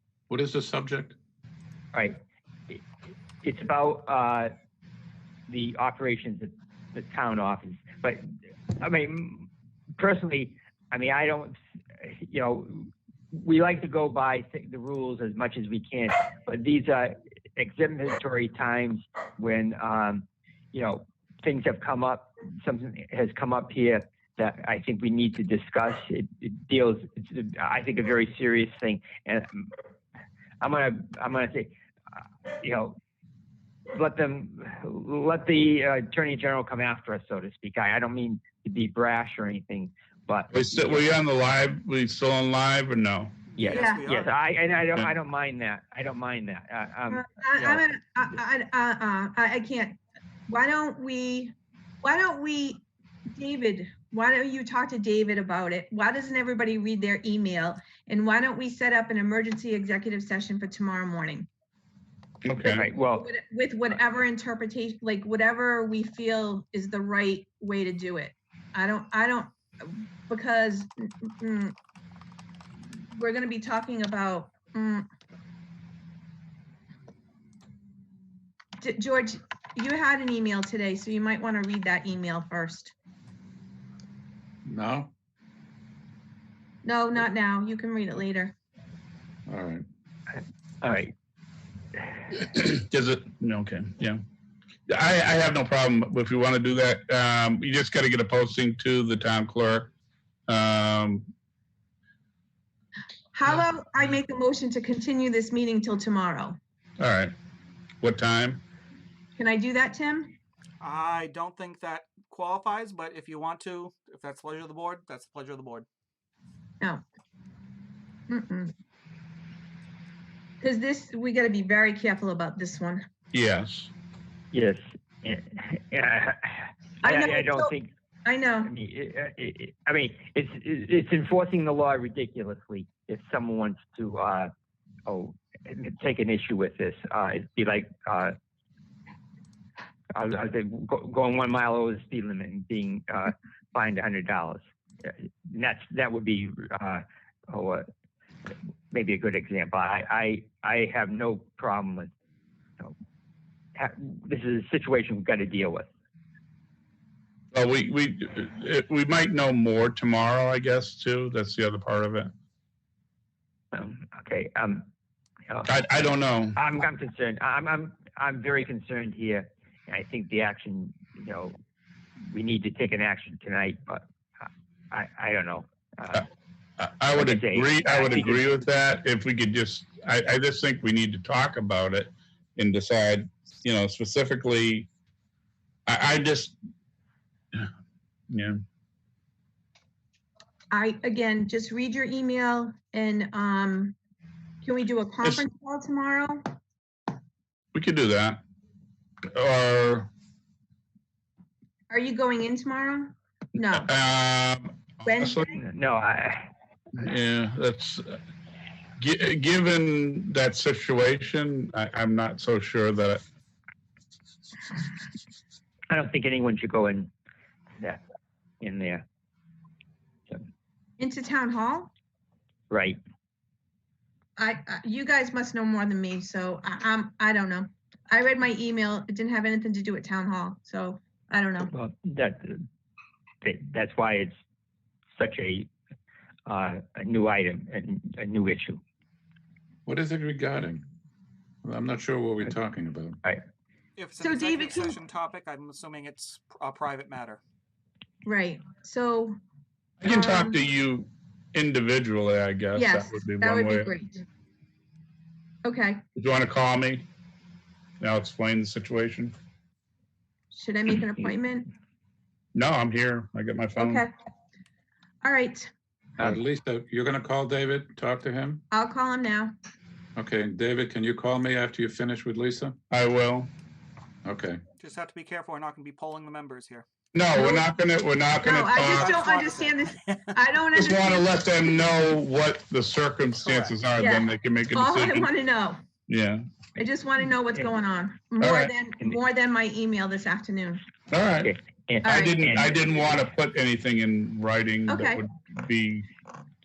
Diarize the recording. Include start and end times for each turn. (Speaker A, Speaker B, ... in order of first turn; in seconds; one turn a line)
Speaker A: 0.3-1.1
Speaker B: 1.9-2.2
Speaker B: 3.4-4.5
Speaker B: 5.5-8.3
Speaker B: 8.8-29.7
Speaker B: 30.6-31.7
Speaker B: 32.5-33.0
Speaker B: 33.9-41.1
Speaker C: 40.5-43.4
Speaker D: 43.5-44.3
Speaker B: 43.5-47.8
Speaker E: 43.7-44.0
Speaker E: 47.1-50.0
Speaker E: 50.5-61.5
Speaker C: 62.4-62.9
Speaker B: 62.5-63.3
Speaker E: 63.1-71.7
Speaker E: 72.9-75.0
Speaker E: 78.8-82.9
Speaker A: 84.7-85.1
Speaker E: 86.8-88.5
Speaker A: 89.5-89.8
Speaker B: 90.8-91.1
Speaker C: 92.3-94.2
Speaker C: 94.9-99.9
Speaker C: 100.5-101.3
Speaker E: 103.3-106.6
Speaker C: 107.0-107.3
Speaker C: 108.0-108.6
Speaker E: 109.4-110.3
Speaker D: 110.8-115.8
Speaker E: 118.3-118.7
Speaker E: 120.6-123.0
Speaker C: 123.3-123.9
Speaker B: 124.5-127.9
Speaker E: 127.0-127.7
Speaker E: 128.2-128.7
Speaker B: 128.6-134.5
Speaker B: 135.1-138.3
Speaker B: 140.1-147.9
Speaker B: 148.9-152.1
Speaker B: 153.7-155.9
Speaker C: 157.5-162.3
Speaker B: 163.7-164.9
Speaker B: 165.5-171.6
Speaker C: 165.7-166.6
Speaker B: 172.3-176.2
Speaker C: 176.8-184.9
Speaker B: 177.1-178.4
Speaker C: 185.9-186.6
Speaker C: 188.3-188.6
Speaker E: 190.7-193.9
Speaker E: 194.6-196.4
Speaker C: 197.7-198.4
Speaker C: 199.3-200.1
Speaker E: 201.9-203.9
Speaker C: 203.7-205.6
Speaker E: 205.1-205.4
Speaker B: 205.6-206.5
Speaker C: 207.0-208.2
Speaker C: 209.0-213.2
Speaker B: 215.9-217.1
Speaker B: 218.6-219.0
Speaker E: 221.0-221.9
Speaker B: 222.7-223.0
Speaker E: 224.4-231.7
Speaker B: 231.6-232.7
Speaker B: 233.4-234.3
Speaker B: 235.2-235.7
Speaker B: 236.5-238.8
Speaker A: 239.8-240.8
Speaker A: 241.6-243.2
Speaker D: 244.0-247.4
Speaker E: 244.2-245.0
Speaker E: 248.2-249.3
Speaker C: 250.0-253.9
Speaker E: 250.0-250.6
Speaker E: 252.8-254.2
Speaker E: 255.6-256.0
Speaker C: 256.1-257.1
Speaker C: 258.0-259.3
Speaker E: 260.5-261.7
Speaker C: 262.5-264.1
Speaker E: 263.8-264.1
Speaker E: 265.2-265.7
Speaker A: 266.2-268.6
Speaker E: 268.7-269.5
Speaker A: 270.1-272.8
Speaker C: 272.9-273.5
Speaker A: 274.2-274.6
Speaker D: 274.8-276.8
Speaker C: 277.1-279.1
Speaker E: 277.3-277.6
Speaker E: 278.4-281.3
Speaker D: 278.7-280.3
Speaker C: 280.7-285.3
Speaker D: 283.4-283.8
Speaker E: 284.0-285.8
Speaker C: 286.1-286.4
Speaker E: 286.8-290.8
Speaker C: 288.4-288.7
Speaker C: 291.1-291.5
Speaker B: 291.4-293.2
Speaker E: 292.0-292.4
Speaker C: 292.0-296.1
Speaker E: 294.9-295.2